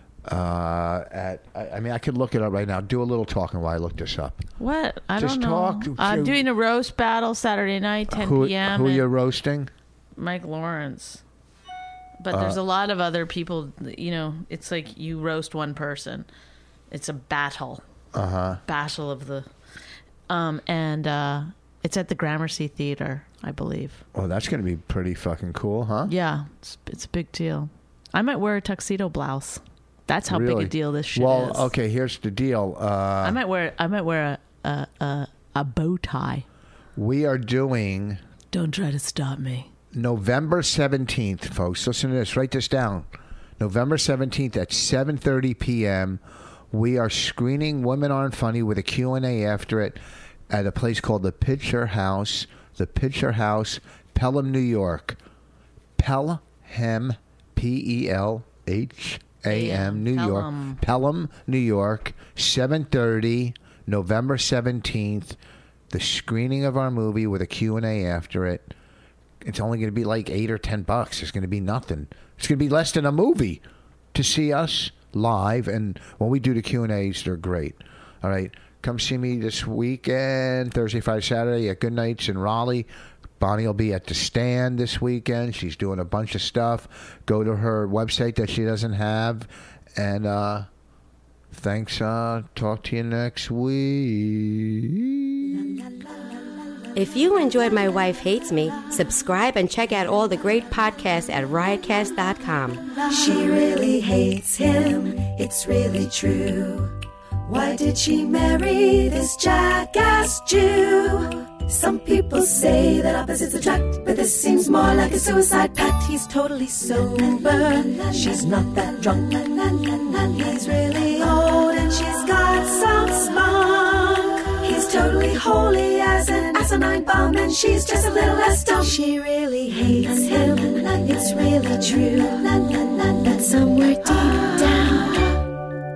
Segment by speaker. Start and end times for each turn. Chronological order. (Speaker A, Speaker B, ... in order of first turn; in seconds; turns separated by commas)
Speaker A: 0.2-4.5, Speaker B: 4.6-9.1, Speaker A: 5.2-6.5, Speaker A: 8.1-9.7, Speaker B: 10.2-11.2, Speaker B: 12.2-16.3, Speaker A: 12.3-12.6, Speaker B: 16.9-17.8, Speaker A: 18.1-18.6, Speaker B: 18.7-19.5, Speaker B: 20.3-24.0, Speaker A: 24.1-26.1, Speaker B: 26.1-31.7, Speaker A: 30.3-33.4, Speaker B: 33.2-36.4, Speaker A: 37.0-38.2, Speaker B: 38.5-39.7, Speaker A: 39.9-43.1, Speaker A: 43.6-46.2, Speaker A: 46.7-55.2, Speaker A: 56.0-65.4, Speaker B: 59.5-60.8, Speaker A: 65.9-68.7, Speaker A: 69.4-73.6, Speaker A: 74.1-90.7, Speaker A: 91.5-95.5, Speaker C: 96.9-103.0, Speaker D: 103.0-135.5